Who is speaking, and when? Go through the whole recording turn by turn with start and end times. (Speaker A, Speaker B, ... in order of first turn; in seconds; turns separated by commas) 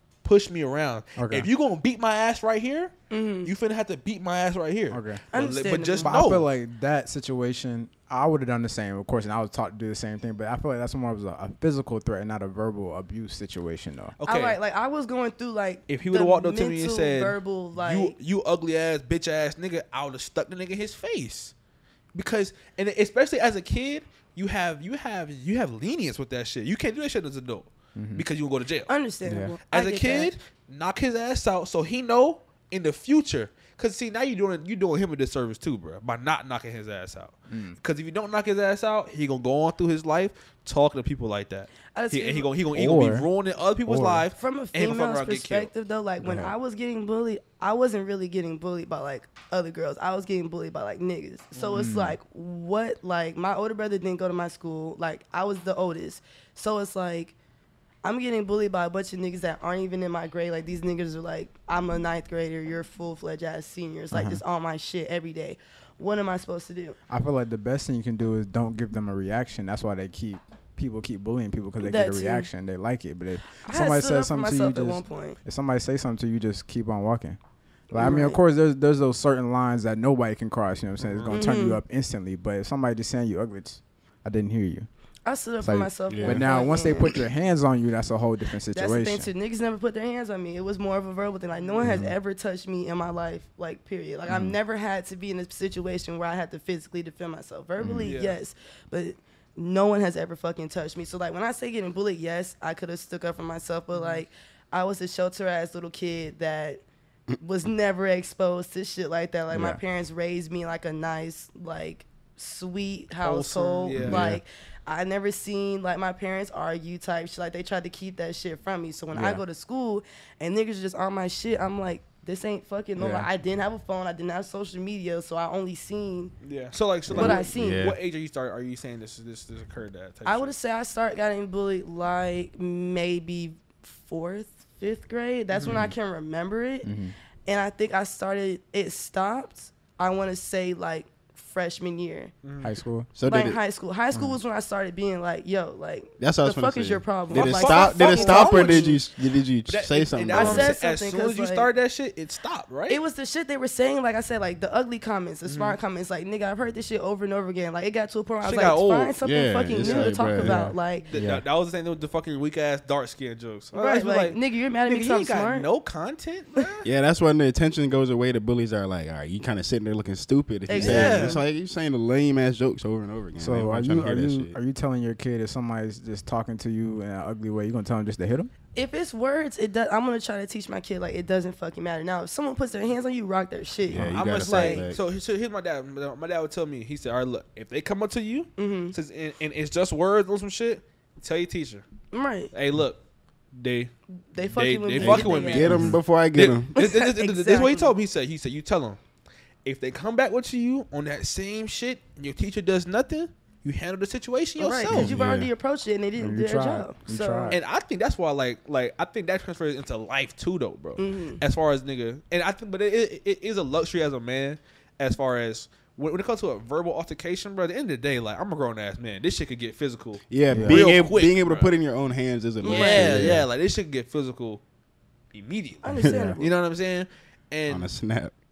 Speaker A: 0.2-6.5, Speaker B: 1.2-1.5, Speaker C: 3.1-3.5, Speaker B: 4.9-5.2, Speaker C: 5.3-6.2, Speaker B: 6.0-14.2, Speaker A: 14.2-14.6, Speaker C: 14.3-18.2, Speaker A: 15.9-21.5, Speaker A: 22.1-28.9, Speaker B: 28.0-28.2, Speaker C: 28.9-30.3, Speaker B: 29.3-29.6, Speaker A: 29.7-45.7, Speaker B: 37.5-37.8, Speaker C: 42.0-42.5, Speaker B: 42.7-43.3, Speaker B: 43.9-44.2, Speaker C: 44.4-57.3, Speaker B: 46.2-46.5, Speaker A: 51.5-51.8, Speaker B: 51.8-52.2, Speaker C: 58.0-67.0, Speaker B: 64.1-64.4, Speaker B: 67.1-77.4, Speaker C: 71.8-72.5, Speaker C: 73.6-75.4, Speaker B: 77.9-84.9, Speaker C: 77.9-78.4, Speaker A: 81.0-81.5, Speaker C: 81.3-81.8, Speaker C: 85.2-87.2, Speaker B: 85.6-89.3, Speaker D: 86.1-86.5, Speaker C: 88.7-106.8, Speaker A: 91.6-92.0, Speaker B: 91.8-92.1, Speaker B: 94.3-94.6, Speaker B: 97.8-98.2, Speaker A: 98.0-98.4, Speaker A: 103.9-104.2, Speaker C: 107.4-126.3, Speaker B: 109.5-109.8, Speaker A: 113.2-114.3, Speaker B: 114.0-114.4, Speaker B: 119.1-119.4, Speaker B: 123.0-123.3, Speaker A: 126.4-130.5, Speaker B: 127.1-127.4, Speaker D: 127.1-128.0, Speaker C: 127.2-127.8, Speaker C: 130.2-136.9, Speaker A: 135.5-135.9, Speaker B: 136.8-137.2, Speaker C: 137.5-142.3, Speaker A: 142.4-142.7, Speaker B: 142.6-143.1, Speaker D: 143.2-143.6, Speaker C: 143.2-149.0, Speaker B: 144.1-144.4, Speaker D: 146.2-150.7, Speaker A: 147.3-149.0, Speaker A: 149.7-153.0, Speaker C: 150.3-151.7, Speaker C: 152.9-161.1, Speaker A: 155.4-155.8, Speaker A: 158.4-159.2, Speaker D: 159.2-160.7, Speaker A: 159.7-160.4, Speaker B: 160.4-161.4, Speaker A: 160.9-166.8, Speaker C: 163.7-165.7, Speaker D: 166.8-174.6, Speaker C: 170.7-171.4, Speaker A: 170.7-171.4, Speaker B: 173.4-178.5, Speaker C: 178.8-184.9, Speaker D: 183.9-185.0, Speaker A: 184.1-191.9, Speaker C: 188.6-189.0, Speaker C: 192.1-192.5, Speaker A: 192.5-193.0, Speaker A: 193.5-193.9, Speaker C: 194.3-195.8, Speaker A: 194.4-199.0, Speaker D: 194.9-196.8, Speaker B: 195.7-196.0, Speaker C: 196.8-197.9, Speaker A: 199.7-205.1, Speaker C: 204.6-207.6, Speaker D: 204.9-205.5, Speaker B: 206.2-207.6, Speaker A: 207.5-221.7, Speaker C: 211.0-211.4, Speaker D: 220.3-223.4, Speaker B: 220.5-220.8, Speaker C: 222.6-223.2, Speaker A: 222.6-224.6, Speaker B: 223.1-223.5, Speaker A: 225.3-227.9, Speaker C: 225.8-226.6, Speaker D: 226.0-226.3, Speaker B: 226.1-226.4, Speaker D: 227.7-228.3